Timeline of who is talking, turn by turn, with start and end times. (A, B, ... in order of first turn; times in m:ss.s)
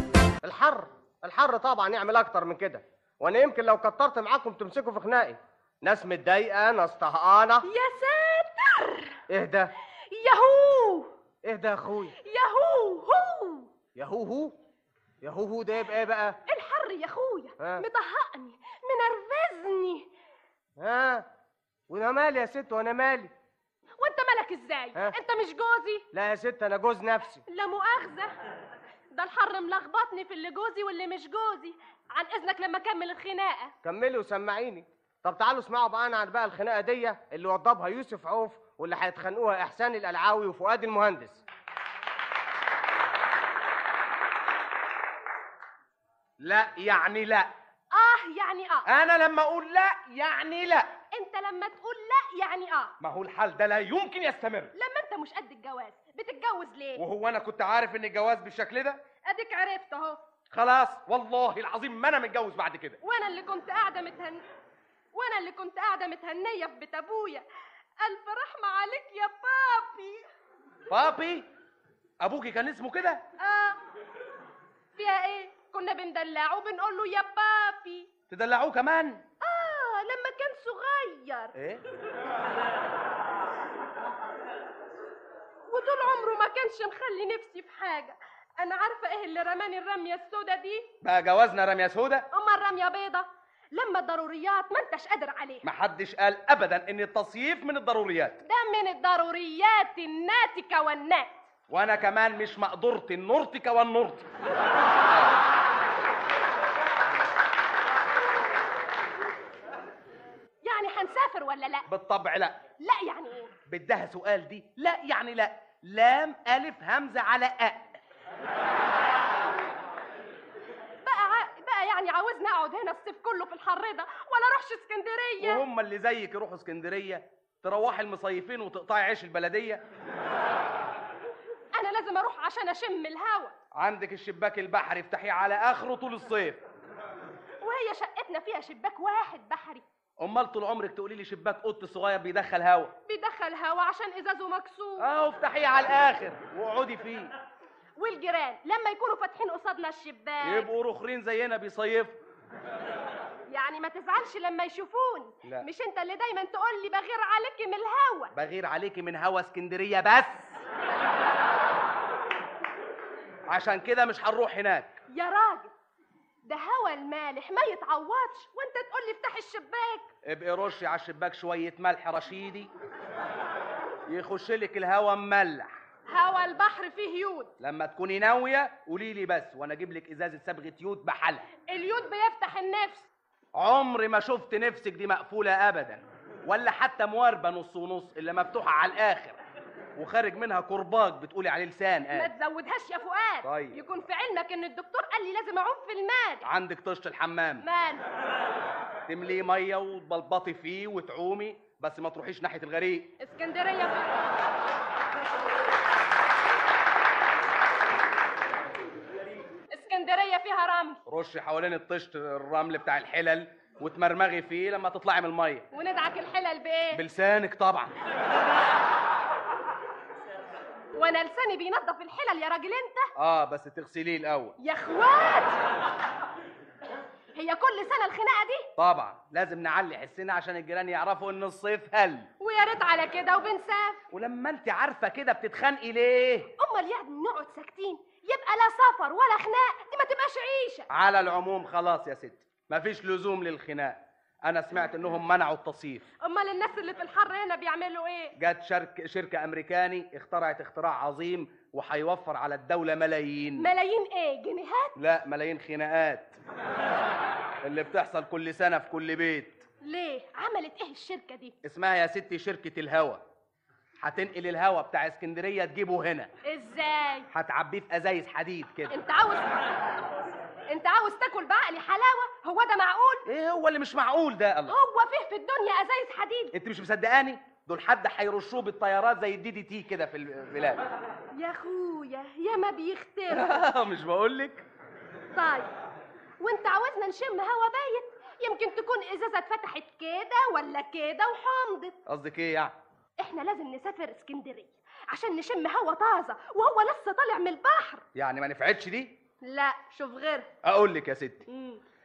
0:00.4-0:07.6 A
0:07.6-0:09.2 B
0:09.3-0:09.7 A
0:10.1-0:11.1 B
0:11.4-0:12.1 A
0:12.2-0:13.7 B
0:14.0-0:14.5 A
0:15.2-0:16.4 A
0:16.5-0:20.1 B
0:17.6-0:17.8 A
0:20.8-0:21.2 A
0:21.9-0:23.3 A
0:24.0-0:26.0 B
0:26.1-0:27.4 A
0:27.4-0:28.3 B
0:29.1-0:33.7 B
0:33.8-0:41.4 A
0:46.4-0:47.5 C
0:47.9-0:48.9 B
0:48.8-0:50.9 C
0:51.1-0:52.9 B
0:53.0-0:54.7 C
0:54.7-0:57.0 B
0:57.0-0:59.0 C
0:59.2-1:00.2 B
1:00.5-1:03.0 C
1:03.0-1:04.4 B
1:05.1-1:07.4 B
1:08.0-1:10.3 B
1:10.9-1:11.5 C
1:12.2-1:13.2 C
1:13.4-1:13.8 B
1:14.9-1:18.1 B
1:18.3-1:19.2 C
1:19.4-1:21.5 B
1:21.6-1:21.8 C
1:25.7-1:30.9 B
1:31.0-1:32.3 C
1:32.3-1:35.6 B
1:35.6-1:38.4 C
1:38.4-1:41.4 B
1:41.7-1:44.3 C
1:50.6-1:51.9 B
1:51.9-1:52.6 C
1:52.8-1:53.5 B
1:53.7-1:57.9 C
2:01.0-2:05.6 B
2:05.4-2:09.8 C
2:11.8-2:13.5 B
2:13.7-2:16.6 C
2:17.6-2:19.8 B
2:20.2-2:22.9 C
2:23.1-2:25.1 B
2:25.0-2:27.3 C
2:28.0-2:30.7 B
2:30.4-2:32.2 C
2:33.5-2:38.3 B
2:38.3-2:40.6 C
2:43.5-2:45.0 C
2:45.1-2:45.7 B
2:46.4-2:50.1 B
2:50.2-2:52.7 C
2:54.1-2:55.7 C
2:56.1-2:57.5 B
2:57.6-3:01.5 C
3:01.7-3:03.1 B
3:03.5-3:09.4 C
3:10.0-3:12.3 C
3:12.1-3:16.4 B
3:13.4-3:13.8 C
3:16.4-3:17.6 C
3:17.6-3:18.1 B
3:19.1-3:23.1 C
3:23.2-3:24.2 B
3:29.7-3:31.0 B
3:31.1-3:35.7 C
3:35.7-3:37.0 B
3:36.9-3:37.9 C
3:40.9-3:43.1 B
3:43.2-3:44.6 C
3:44.6-3:45.6 B
3:47.3-3:48.7 B
3:48.8-3:52.3 C
3:52.4-3:54.0 B
3:54.1-3:56.5 C
3:56.6-4:00.9 B
4:00.9-4:06.1 C
4:06.2-4:08.3 B
4:08.4-4:13.7 C
4:13.6-4:14.9 B
4:15.0-4:16.4 C
4:17.6-4:19.6 C
4:19.8-4:21.6 B
4:21.6-4:23.2 C
4:24.0-4:26.3 C
4:26.4-4:27.3 B
4:27.3-4:29.0 C
4:28.9-4:30.0 B
4:30.7-4:33.3 B
4:33.3-4:34.8 C
4:34.7-4:36.5 B
4:36.5-4:40.9 C
4:41.3-4:43.6 B
4:43.3-4:44.6 C
4:45.3-4:45.7 B
4:46.4-4:52.0 B
4:52.1-4:52.7 C
4:53.2-4:58.0 B
4:58.2-4:59.2 C
4:59.4-5:00.5 B
5:00.6-5:01.4 C
5:01.5-5:01.8 B